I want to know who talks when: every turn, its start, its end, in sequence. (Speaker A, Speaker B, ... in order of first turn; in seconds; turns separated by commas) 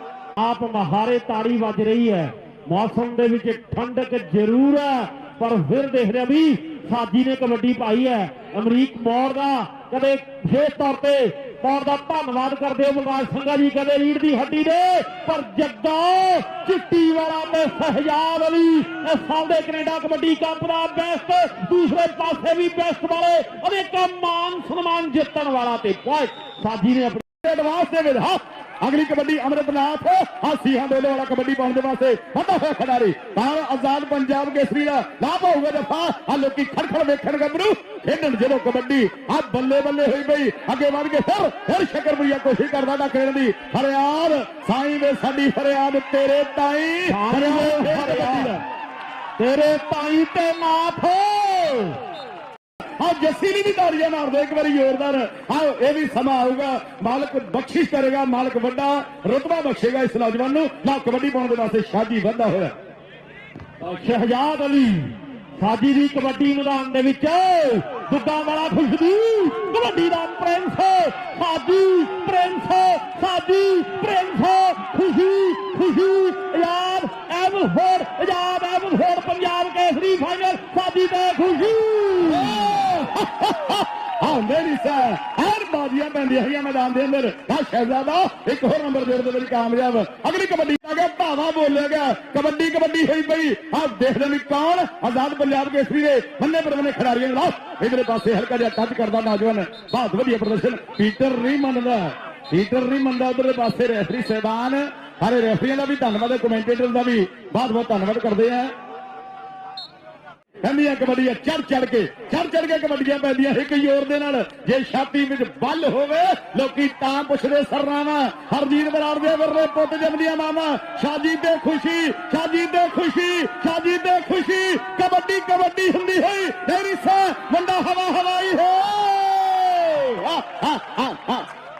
Speaker A: 0.4-27.2, Speaker B: 27.4-48.5, Speaker A: 47.0-48.6, Speaker A: 49.4-52.0, Speaker B: 53.0-62.7, Speaker A: 63.8-82.7, Speaker B: 82.3-108.7, Speaker B: 110.6-131.5